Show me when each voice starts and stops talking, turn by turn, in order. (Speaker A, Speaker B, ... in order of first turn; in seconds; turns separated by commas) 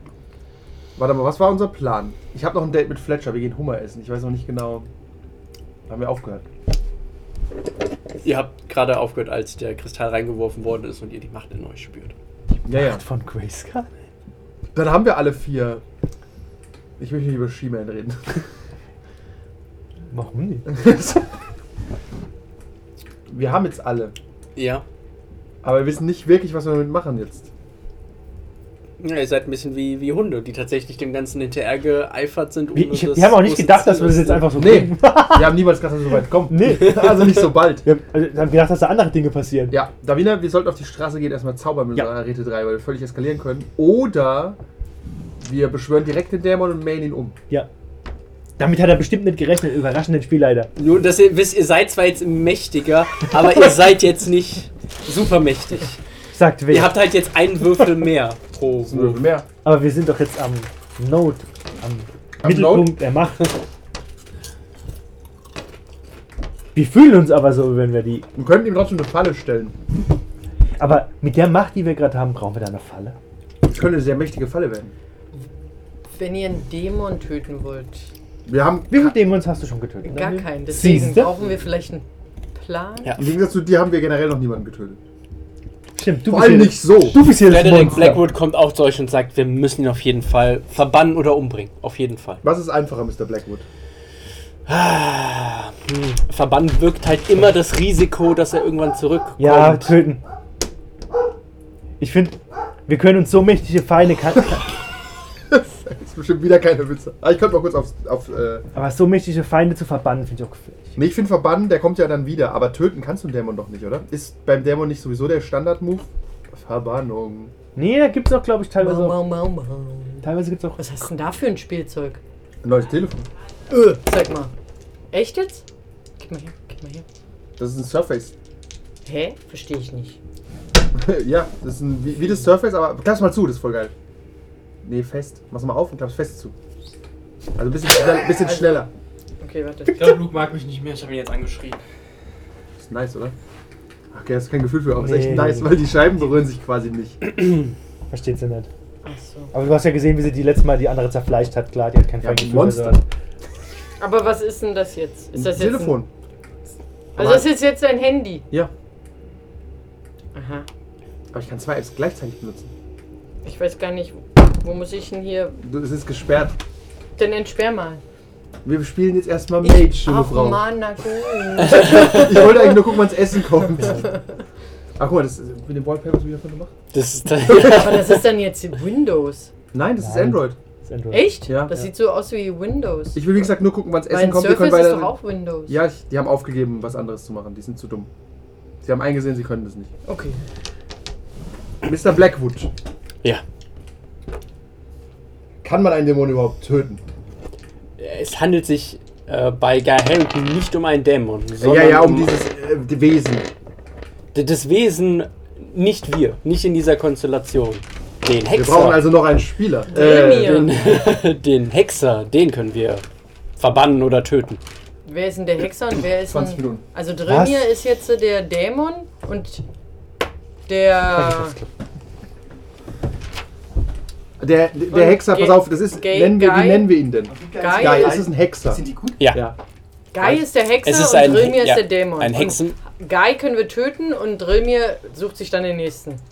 Speaker A: 1.0-4.9, Speaker A: 5.9-6.5, Speaker B: 8.2-12.1, Speaker A: 12.7-13.0, Speaker C: 12.7-13.9, Speaker A: 14.8-15.8, Speaker A: 17.0-18.4, Speaker C: 20.1-20.7, Speaker A: 20.7-21.2, Speaker A: 23.3-24.1, Speaker B: 24.6-24.8, Speaker A: 25.6-27.5, Speaker B: 29.0-34.6, Speaker C: 32.7-35.6, Speaker A: 34.5-37.9, Speaker C: 36.5-39.8, Speaker B: 36.8-37.3, Speaker A: 39.7-44.6, Speaker A: 45.4-47.4, Speaker C: 48.6-50.7, Speaker B: 50.8-56.0, Speaker C: 56.3-57.0, Speaker B: 56.7-59.2, Speaker A: 58.9-59.5, Speaker C: 59.6-63.6, Speaker A: 62.4-62.9, Speaker C: 66.7-68.3, Speaker A: 68.3-69.8, Speaker C: 70.8-73.2, Speaker A: 73.6-74.9, Speaker D: 76.1-78.1, Speaker A: 78.5-79.2, Speaker C: 78.9-81.3, Speaker D: 80.0-83.2, Speaker A: 83.2-85.0, Speaker C: 86.0-88.2, Speaker A: 86.2-88.2, Speaker B: 87.4-92.4, Speaker A: 92.4-93.7, Speaker B: 94.7-100.0, Speaker C: 99.4-100.2, Speaker C: 102.0-104.7, Speaker A: 105.5-108.7, Speaker C: 108.8-110.9, Speaker A: 111.0-117.5, Speaker C: 117.8-119.2, Speaker D: 118.8-122.2, Speaker C: 120.2-120.8, Speaker A: 122.6-123.3, Speaker D: 123.7-124.5, Speaker D: 125.1-125.7, Speaker D: 126.2-127.0, Speaker A: 127.6-128.3, Speaker D: 129.1-130.2, Speaker A: 130.9-133.9, Speaker A: 134.8-136.5, Speaker A: 137.6-138.9, Speaker D: 138.3-138.9, Speaker D: 139.4-140.2, Speaker B: 139.9-141.8, Speaker A: 142.8-143.3, Speaker A: 144.1-147.2, Speaker C: 145.0-145.7, Speaker C: 148.1-148.7, Speaker D: 149.0-149.5, Speaker C: 149.5-153.0, Speaker A: 152.2-153.0, Speaker D: 154.0-156.0, Speaker A: 155.3-156.1, Speaker A: 157.2-157.5, Speaker D: 157.2-158.4, Speaker D: 160.3-160.7, Speaker A: 161.3-162.7, Speaker D: 163.4-165.6, Speaker A: 165.6-166.6, Speaker D: 167.2-168.0, Speaker A: 168.6-170.6, Speaker D: 169.6-172.6, Speaker B: 171.6-172.6, Speaker A: 171.7-174.1, Speaker C: 173.8-174.1, Speaker D: 173.8-174.3, Speaker A: 175.0-176.8, Speaker B: 176.9-178.3, Speaker D: 177.6-179.5, Speaker A: 179.7-180.6, Speaker C: 180.0-181.8, Speaker D: 181.1-183.3, Speaker A: 181.5-181.8, Speaker A: 183.2-185.1, Speaker D: 184.1-185.8, Speaker A: 185.7-188.1, Speaker A: 188.8-189.9, Speaker D: 190.1-190.4, Speaker A: 191.8-192.7, Speaker A: 195.6-197.0, Speaker B: 198.0-202.4, Speaker A: 201.6-203.5, Speaker B: 204.3-209.0, Speaker A: 208.5-210.7, Speaker D: 209.9-210.8, Speaker B: 210.0-213.1, Speaker B: 213.6-214.6, Speaker D: 215.1-219.6, Speaker A: 216.3-216.8, Speaker C: 217.3-217.7, Speaker D: 220.7-221.6, Speaker A: 224.4-229.6, Speaker D: 224.9-227.0, Speaker C: 227.3-229.2, Speaker D: 227.6-228.3, Speaker B: 229.2-229.5, Speaker D: 230.1-236.2, Speaker B: 230.8-232.8